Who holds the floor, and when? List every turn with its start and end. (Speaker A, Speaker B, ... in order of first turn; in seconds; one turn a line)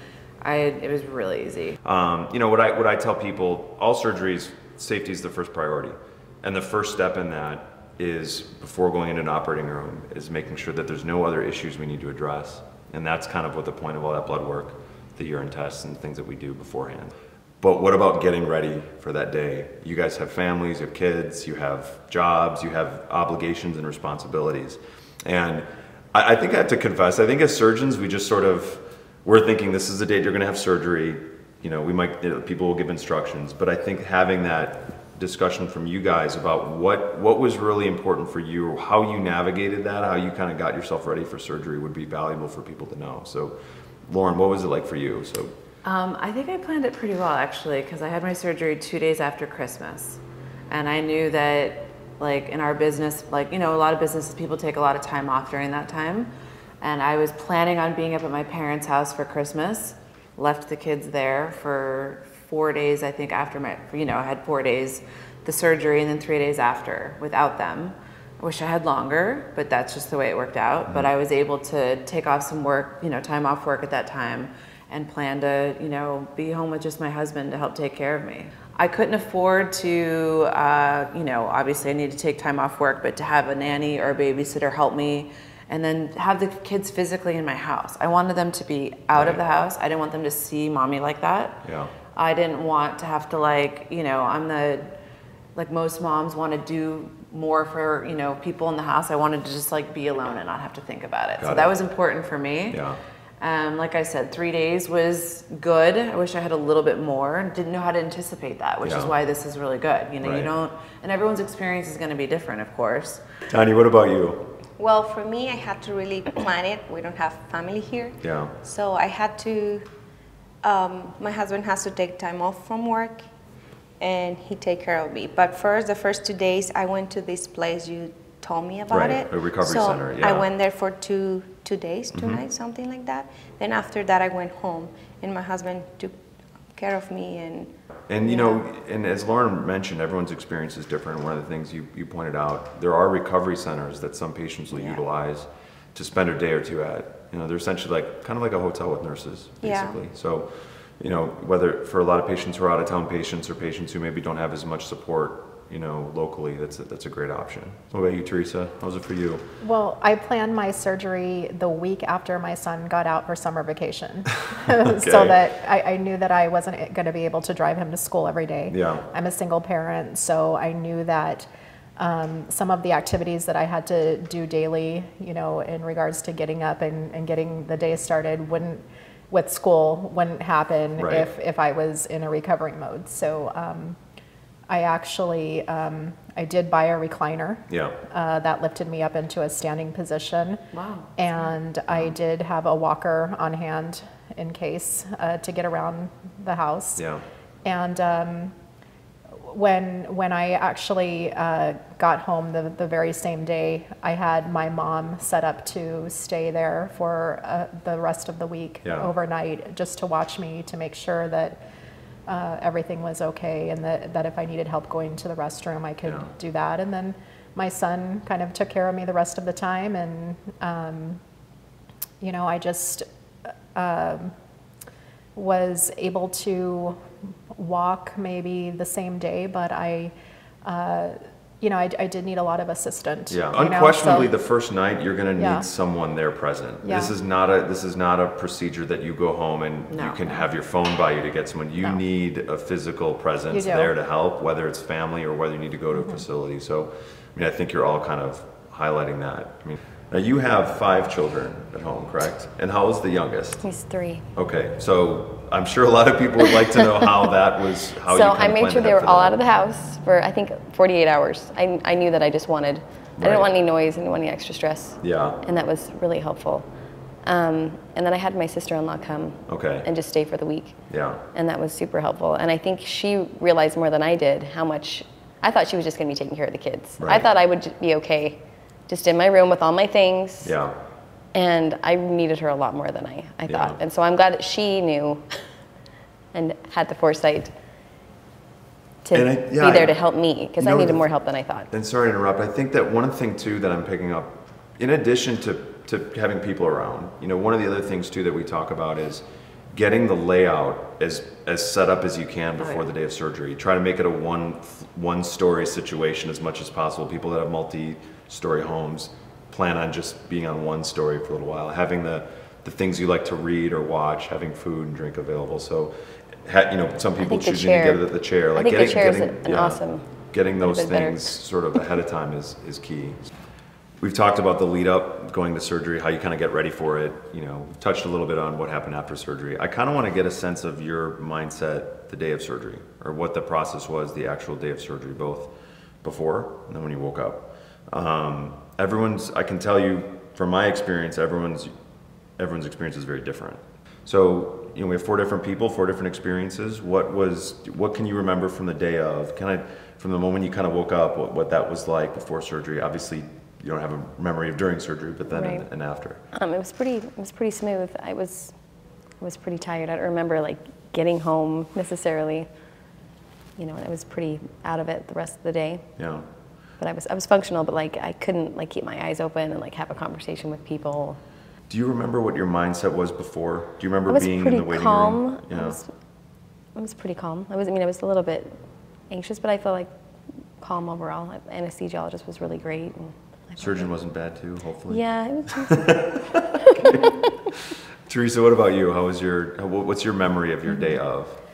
Speaker A: 0.4-1.8
Speaker B: 1.8-45.5
Speaker A: 45.8-94.9
Speaker B: 89.1-89.4
Speaker B: 91.6-91.9
Speaker A: 95.5-102.8
Speaker B: 101.4-101.7
Speaker B: 102.7-103.0
Speaker A: 103.4-113.2
Speaker B: 108.8-109.1
Speaker B: 110.2-110.5
Speaker B: 113.5-114.5
Speaker C: 114.8-119.9
Speaker B: 118.2-118.5
Speaker C: 120.6-123.2
Speaker C: 124.0-136.1
Speaker B: 128.9-130.5
Speaker B: 132.1-132.4
Speaker C: 136.7-137.7
Speaker B: 138.1-159.4
Speaker C: 138.3-138.5
Speaker C: 149.6-150.0
Speaker D: 159.6-184.0
Speaker B: 164.5-165.4
Speaker B: 168.7-169.1
Speaker B: 181.0-181.3
Speaker D: 184.7-190.6
Speaker B: 187.7-188.0
Speaker A: 190.7-191.1
Speaker D: 191.2-197.0
Speaker B: 197.0-197.2
Speaker D: 197.6-198.5
Speaker D: 199.4-211.6
Speaker B: 208.8-209.1
Speaker D: 212.3-221.2
Speaker D: 222.2-223.1
Speaker D: 223.7-224.3
Speaker D: 225.3-230.1
Speaker D: 230.6-234.3
Speaker B: 233.3-253.7
Speaker D: 235.4-235.6
Speaker D: 236.8-237.1
Speaker A: 239.9-240.4
Speaker D: 243.5-243.9
Speaker D: 245.9-246.2
Speaker E: 253.6-254.3
Speaker B: 254.3-259.4
Speaker E: 258.0-266.6
Speaker B: 263.2-263.5
Speaker B: 265.0-265.4
Speaker E: 267.2-270.8
Speaker B: 269.5-269.9
Speaker B: 270.9-271.2
Speaker E: 271.3-280.5
Speaker B: 277.0-277.3
Speaker B: 280.4-280.8
Speaker E: 281.3-285.4
Speaker B: 283.5-283.8
Speaker E: 286.3-287.5
Speaker E: 289.0-291.7
Speaker B: 289.1-289.9
Speaker B: 290.6-291.1
Speaker B: 291.7-315.9
Speaker A: 302.6-302.9
Speaker B: 316.4-323.2
Speaker E: 317.2-320.1
Speaker E: 320.6-321.4
Speaker B: 324.0-341.7
Speaker B: 342.4-356.2
Speaker E: 355.3-355.7
Speaker E: 356.3-358.5
Speaker E: 359.2-362.5
Speaker E: 363.6-365.9
Speaker B: 366.0-366.2
Speaker E: 366.8-371.2
Speaker B: 371.7-375.8
Speaker E: 374.1-375.9
Speaker E: 376.7-378.6
Speaker E: 379.1-379.9
Speaker E: 380.6-383.8
Speaker B: 383.6-387.2
Speaker E: 384.9-387.2
Speaker B: 388.1-391.4